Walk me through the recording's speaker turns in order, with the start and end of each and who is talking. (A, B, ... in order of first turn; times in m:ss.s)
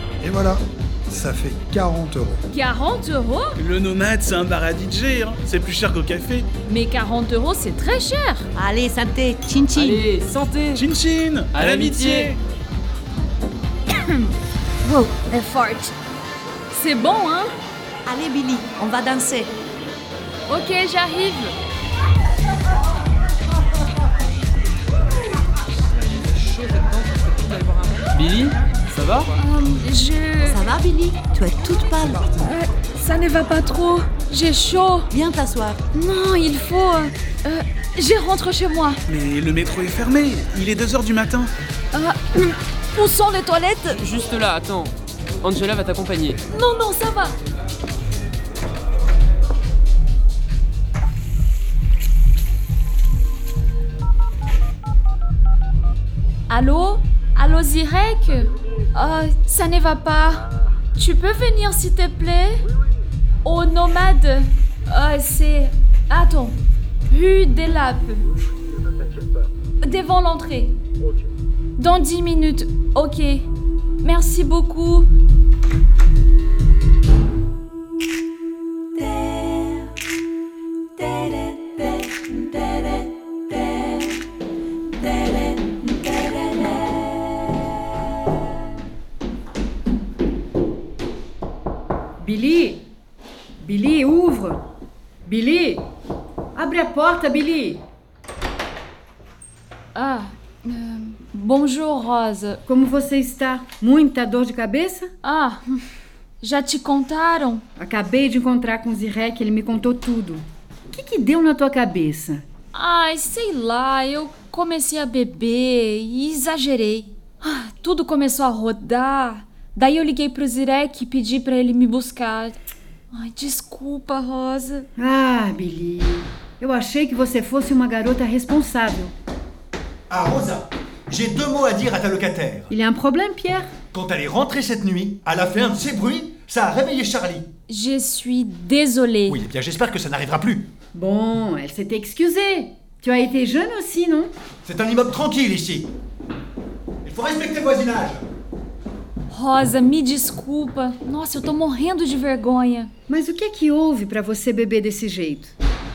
0:00.2-0:02.4 A
0:02.5-0:03.6 B
0:03.6-0:06.5 C
0:06.6-0:08.5 B
0:08.6-0:10.0 D
0:09.7-0:10.8 E
0:10.8-0:12.4 C
0:11.5-0:12.3 E
0:14.9-0:15.9 B
0:16.7-0:17.5 B
0:18.1-0:19.5 D
0:20.5-0:21.5 B
0:28.1-0:29.3 E
0:29.4-0:30.6 B
0:30.5-0:32.3 D
0:32.4-0:35.1 B
0:35.1-0:35.8 D
0:35.9-0:39.0 B
0:39.1-0:41.5 C
0:41.9-0:44.0 B
0:43.9-0:46.4 E
0:46.5-0:47.3 B
0:56.5-1:02.6 B
1:03.4-1:08.3 B
1:09.8-1:10.8 B
1:11.8-1:13.4 B
1:14.0-1:15.1 B
1:32.2-1:32.8 F
1:33.6-1:34.6 F
1:35.2-1:35.9 F
1:36.5-1:37.8 F
1:39.9-1:42.6 B
1:42.6-1:45.1 F
1:45.2-1:45.8 B
1:46.4-1:47.6 B
1:47.8-1:52.4 F
1:52.7-2:02.6 B
2:03.1-2:04.9 B
2:05.0-2:09.1 F
2:10.1-2:12.7 G
2:12.7-2:13.7 F
2:13.9-2:17.5 G
2:17.7-2:19.4 B
2:19.3-2:20.7 G
2:20.9-2:24.3 F
2:24.6-2:25.9 G
2:27.0-2:28.2 G
2:29.3-2:32.9 B
2:33.1-2:35.5 F